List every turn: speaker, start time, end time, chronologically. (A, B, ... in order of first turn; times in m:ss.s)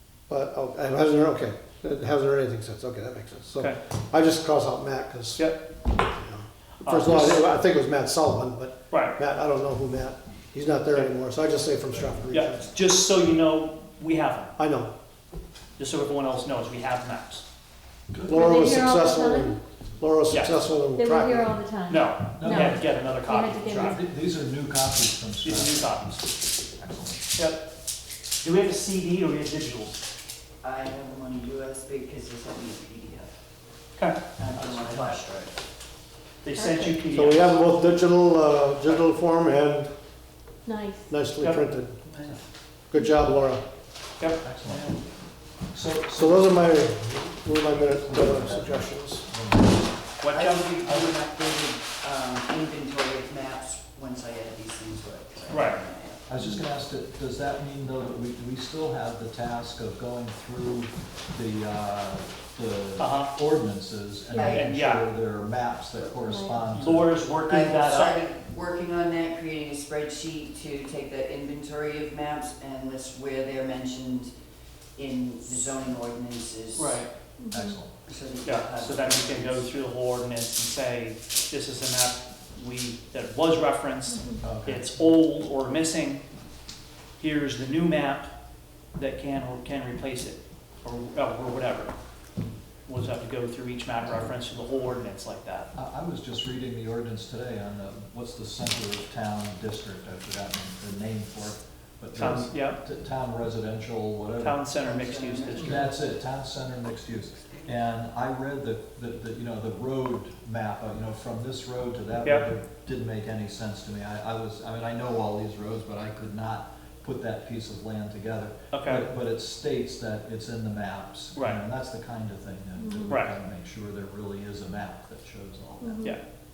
0:00.3-0:12.7 A
0:06.8-0:07.4 B
0:08.9-0:09.2 B
0:12.3-0:14.6 B
0:14.6-0:14.9 A
0:15.8-0:17.4 B
0:18.1-0:19.0 C
0:18.3-0:21.6 A
0:18.3-0:19.5 D
0:20.3-0:20.6 B
0:21.0-0:24.0 D
0:21.9-0:24.0 B
0:22.4-0:22.8 C
0:23.8-0:26.0 C
0:25.4-0:26.3 B
0:26.8-0:27.2 C
0:27.3-0:27.6 B
0:28.4-0:30.0 B
0:30.6-0:33.3 E
0:34.0-0:34.2 B
0:34.4-0:35.5 E
0:34.5-0:35.0 C
0:36.4-0:37.6 B
0:36.5-0:37.0 D
0:37.1-0:39.9 A
0:40.7-0:41.1 D
0:41.1-0:42.0 A
0:41.4-0:42.4 B
0:42.9-0:43.6 A
0:44.2-0:45.0 B
0:44.4-0:44.9 C
0:45.7-0:46.7 C
0:46.1-0:49.2 A
0:47.8-0:50.0 C
0:50.2-0:50.7 B
0:50.3-0:56.2 E
0:50.8-0:51.2 C
0:55.5-0:55.8 B
0:56.3-1:07.1 C
1:03.0-1:03.4 B
1:04.4-1:04.7 E
1:04.4-1:05.0 B
1:06.3-1:06.6 D
1:06.7-1:08.2 B
1:07.5-1:14.3 E
1:15.0-1:17.0 E
1:16.8-1:17.1 B
1:17.4-1:17.8 D
1:17.5-1:17.9 C
1:18.1-1:19.7 E
1:18.4-1:26.2 B
1:24.1-1:24.4 D
1:24.4-1:24.9 C
1:27.2-1:28.3 B
1:29.0-1:31.9 B
1:32.9-1:35.7 B
1:35.7-1:44.6 C
1:42.2-1:42.8 B
1:44.4-1:45.8 B
1:44.8-1:45.9 E
1:45.6-2:06.1 C
1:58.7-1:59.1 B
2:01.4-2:01.6 B
2:02.8-2:03.1 D
2:03.1-2:03.3 B
2:05.8-2:06.2 D